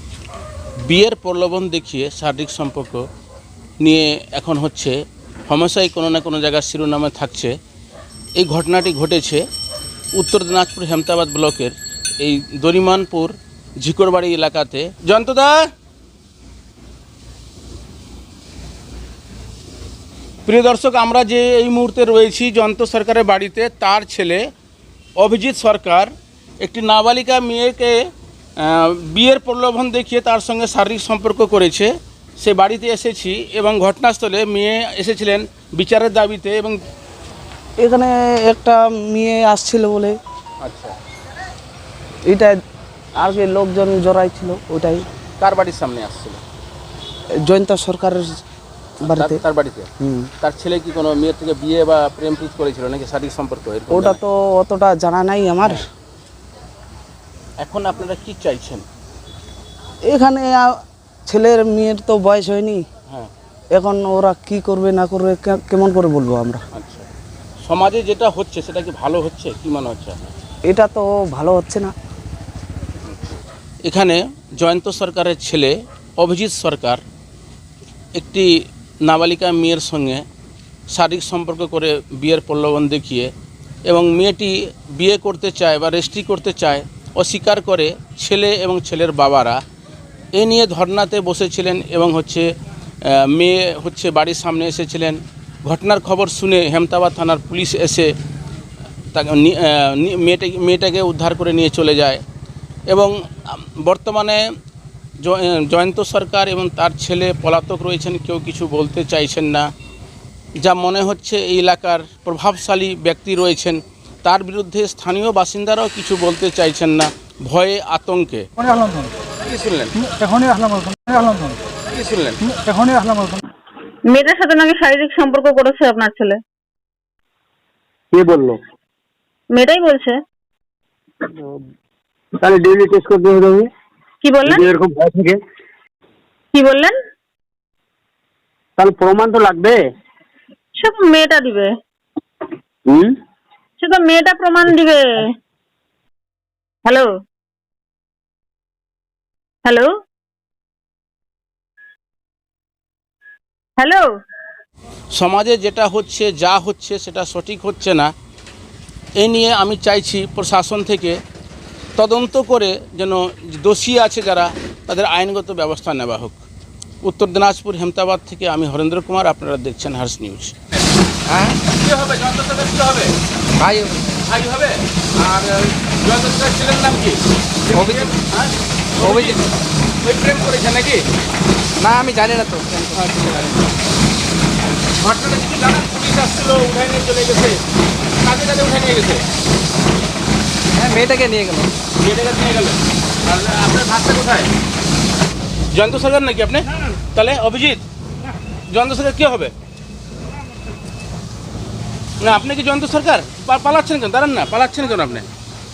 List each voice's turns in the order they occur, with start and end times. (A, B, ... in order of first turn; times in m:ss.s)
0:00.9-0:03.0 A
0:03.8-0:05.0 A
0:05.5-0:07.5 A
0:08.4-0:09.4 A
0:10.2-0:15.5 A
0:20.4-0:24.4 A
0:25.2-0:26.1 A
0:26.6-0:27.9 A
0:28.6-0:36.8 A
0:37.8-0:40.1 B
0:40.6-0:41.0 A
0:43.2-0:45.0 B
0:45.4-0:46.4 A
0:47.4-0:48.2 B
0:49.0-0:49.4 B
0:49.1-0:49.9 A
0:50.0-0:50.3 B
0:50.4-0:54.2 A
0:53.9-0:55.8 B
0:57.6-0:58.8 A
1:00.1-1:00.7 B
1:01.3-1:02.8 B
1:03.8-1:06.6 B
1:06.7-1:07.1 A
1:07.6-1:10.3 A
1:10.7-1:11.9 B
1:13.0-1:17.0 A
1:18.2-1:18.5 A
1:19.0-1:20.2 A
1:20.9-1:23.3 A
1:23.9-1:29.6 A
1:30.4-1:32.5 A
1:33.1-1:38.1 A
1:39.1-1:42.2 A
1:42.9-1:44.4 A
1:45.2-1:49.7 A
1:50.6-2:02.9 A
2:04.1-2:06.4 C
2:08.1-2:08.6 D
2:09.5-2:10.2 C
2:12.4-2:13.7 D
2:14.2-2:14.7 C
2:14.4-2:15.4 D
2:16.5-2:16.9 C
2:18.8-2:19.8 D
2:20.8-2:21.7 C
2:22.9-2:23.1 D
2:23.8-2:25.1 C
2:26.8-2:27.1 C
2:29.6-2:29.9 C
2:33.8-2:34.1 C
2:35.1-2:38.1 A
2:39.2-2:41.2 A
2:42.0-2:46.4 A
2:47.0-2:50.6 A
2:51.3-2:51.6 E
2:51.7-2:53.1 A
2:53.6-2:54.2 E
2:54.2-2:59.5 A
2:57.7-2:58.1 E
2:59.0-2:59.4 E
3:00.0-3:01.0 A
3:01.8-3:03.5 E
3:03.1-3:03.5 A
3:05.0-3:07.6 A
3:08.2-3:09.2 A
3:10.7-3:11.7 E
3:12.0-3:14.5 A
3:15.7-3:17.8 A
3:18.7-3:19.5 A
3:22.2-3:25.3 A